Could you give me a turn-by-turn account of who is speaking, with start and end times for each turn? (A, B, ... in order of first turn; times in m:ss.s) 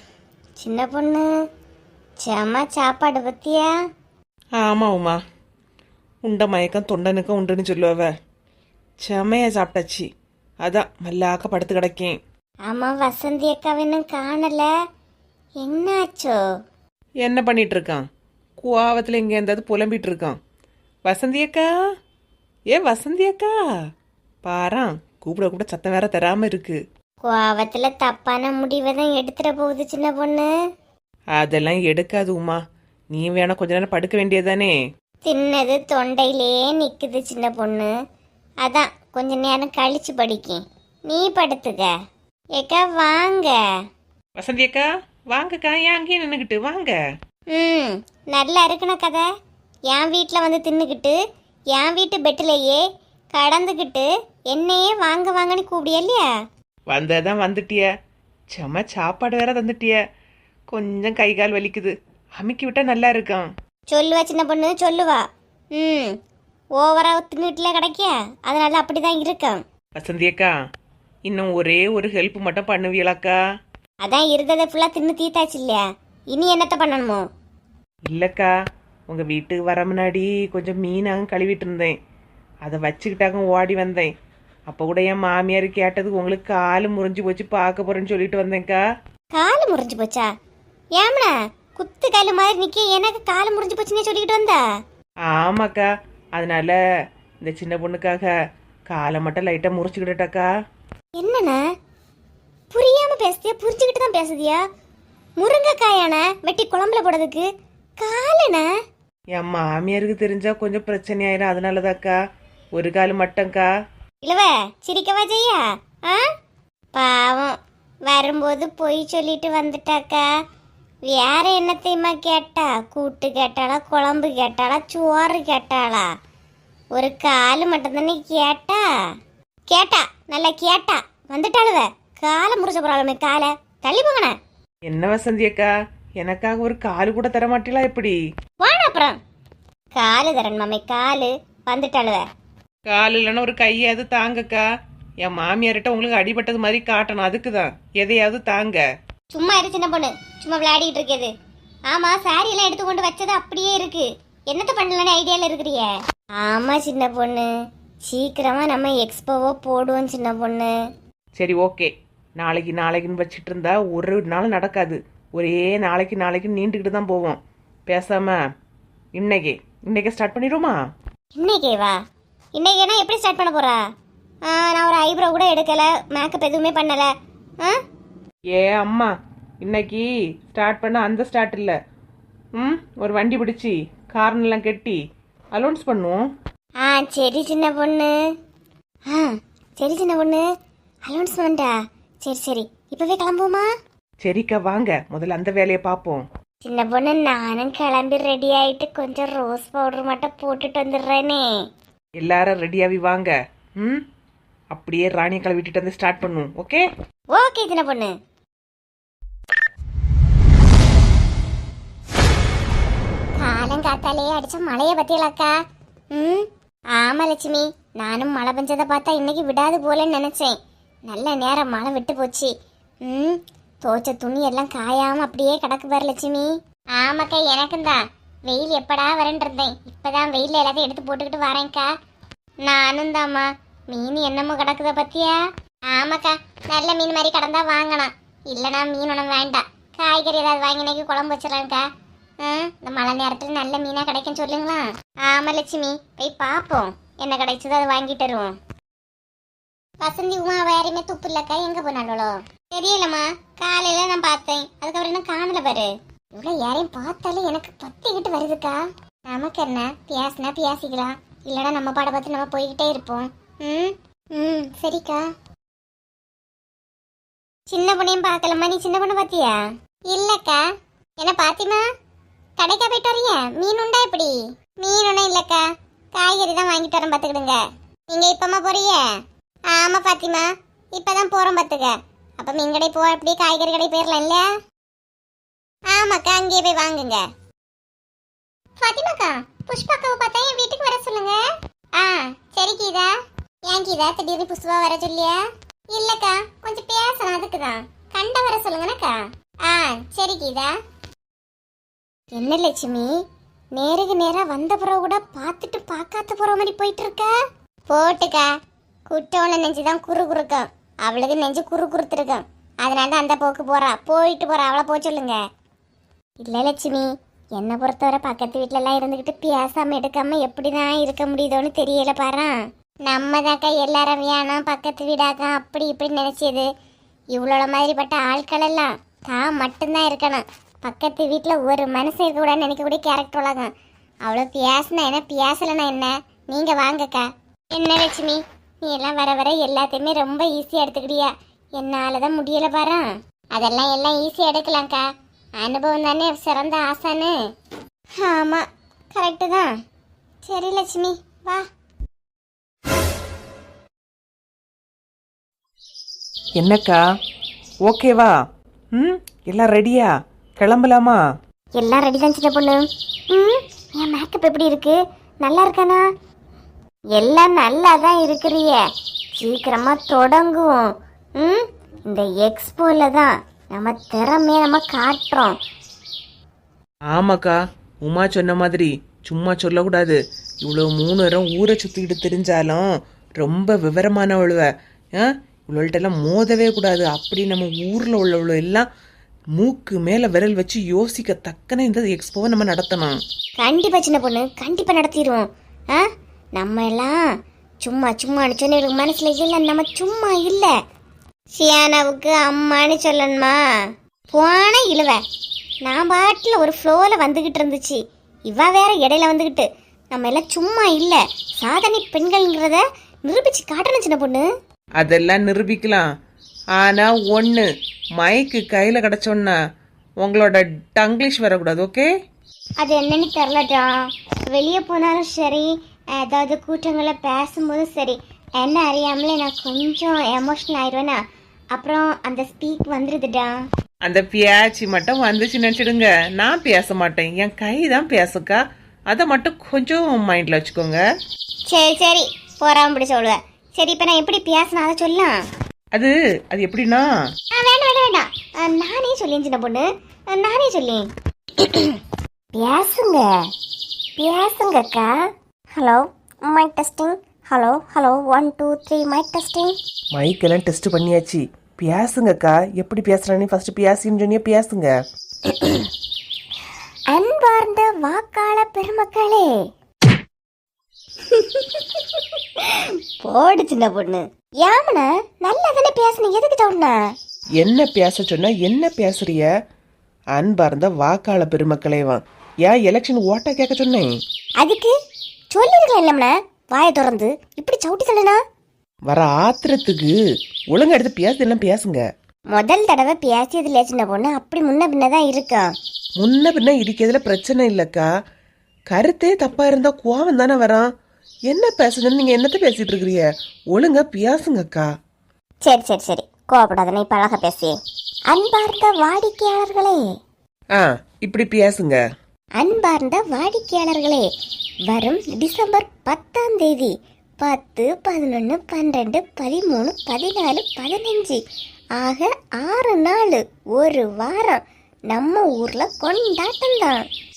0:00.6-0:01.3 A
0:02.2-0:03.7 A
0:04.6-0:05.2 B
0:06.2-0:08.1 B
0:09.0-0:10.1 B
0:10.6-0:12.2 B
0:12.6-0:14.7 A
0:15.6-0:16.4 A
0:17.2-0:18.0 B
0:18.6-0:20.4 B
0:21.0-0:21.7 B
0:22.7-0:23.5 B
0:24.4-0:26.8 B
0:27.2-0:30.5 A
0:31.3-0:32.6 B
0:33.1-0:34.8 B
0:35.2-0:37.9 A
0:38.6-0:41.9 A
0:42.6-0:43.6 A
0:44.4-0:47.0 B
0:47.5-0:49.2 A
0:49.9-0:51.2 A
0:51.7-0:56.3 A
0:56.9-0:57.9 B
0:58.5-1:00.0 B
1:00.7-1:03.5 B
1:03.9-1:06.1 A
1:06.8-1:09.6 A
1:09.9-1:10.5 B
1:11.2-1:13.4 B
1:14.0-1:17.2 A
1:18.1-1:18.5 B
1:19.1-1:21.9 B
1:22.6-1:24.1 B
1:24.7-1:28.8 B
1:29.3-1:30.3 A
1:31.0-1:34.6 A
1:35.2-1:36.8 B
1:37.4-1:38.3 B
1:38.9-1:40.5 B
1:41.2-1:41.6 A
1:42.7-1:44.6 A
1:45.4-1:47.5 A
1:48.0-1:48.7 A
1:49.3-1:52.2 B
1:52.7-1:53.7 B
1:54.2-1:56.3 A
1:56.9-2:00.3 A
2:01.0-2:06.1 A
2:06.9-2:08.8 A
2:09.7-2:14.3 A
2:14.8-2:18.2 B
2:18.6-2:19.2 A
2:19.9-2:22.2 A
2:22.9-2:24.7 B
2:25.2-2:28.8 B
2:29.3-2:31.3 A
2:31.9-2:37.5 A
2:38.0-2:40.7 A
2:41.3-2:48.4 B
2:49.1-2:50.8 B
2:51.4-2:52.0 A
2:52.5-2:53.8 A
2:54.4-2:57.8 A
2:58.5-3:01.8 B
3:02.5-3:05.0 B
3:05.5-3:06.2 B
3:06.8-3:08.1 A
3:09.1-3:10.4 A
3:11.1-3:13.7 A
3:14.2-3:16.2 B
3:16.6-3:21.4 A
3:22.2-3:24.0 B
3:24.7-3:26.8 B
3:27.3-3:28.1 A
3:33.4-3:35.5 A
3:36.1-3:42.5 A
3:43.0-3:51.9 A
3:52.6-4:01.8 A
4:02.4-4:08.6 A
4:10.0-4:25.2 A
4:27.7-4:30.6 A
4:31.2-4:31.8 A
4:32.6-4:44.5 A
4:45.9-4:47.3 A
4:48.8-4:51.4 A
4:51.9-4:53.1 A
4:53.6-5:00.7 A
5:02.3-5:03.1 A
5:03.7-5:07.3 A
5:07.9-5:08.5 A
5:09.1-5:15.4 A
5:16.4-5:26.7 A
5:27.3-5:33.7 A
5:34.2-5:45.0 A
5:45.6-5:47.4 A
5:48.2-5:49.7 A
5:50.4-5:51.6 A
5:56.6-5:57.0 B
5:57.8-5:58.4 B
5:58.9-6:01.2 B
6:01.7-6:06.0 A
6:07.1-6:08.8 A
6:09.4-6:15.6 A
6:17.1-6:22.9 B
6:23.4-6:28.9 B
6:29.6-6:33.2 B
6:33.6-6:37.2 A
6:37.8-6:40.7 A
6:41.5-6:43.6 A
6:44.3-6:45.2 A
6:45.8-6:54.5 A
6:55.0-6:56.1 B
6:56.8-6:57.7 B
6:58.2-6:59.6 B
7:00.2-7:02.1 B
7:02.8-7:11.2 A
7:11.7-7:13.6 A
7:14.0-7:21.0 B
7:21.7-7:25.4 A
7:25.9-7:27.1 B
7:27.5-7:32.0 A
7:32.5-7:33.3 A
7:34.2-7:35.2 A
7:35.8-7:39.7 A
7:40.1-7:44.9 B
7:45.4-7:45.9 A
7:47.1-7:49.5 A
7:51.2-7:57.0 A
7:57.6-7:59.5 B
8:00.3-8:04.1 B
8:04.6-8:04.9 A
8:05.5-8:08.4 A
8:09.1-8:10.1 B
8:10.7-8:12.0 B
8:12.5-8:15.7 A
8:16.2-8:18.1 B
8:18.9-8:20.9 B
8:21.5-8:24.9 B
8:25.6-8:27.8 A
8:28.3-8:30.0 A
8:30.7-8:32.0 B
8:32.6-8:34.2 A
8:34.9-8:41.4 A
8:42.0-8:47.0 A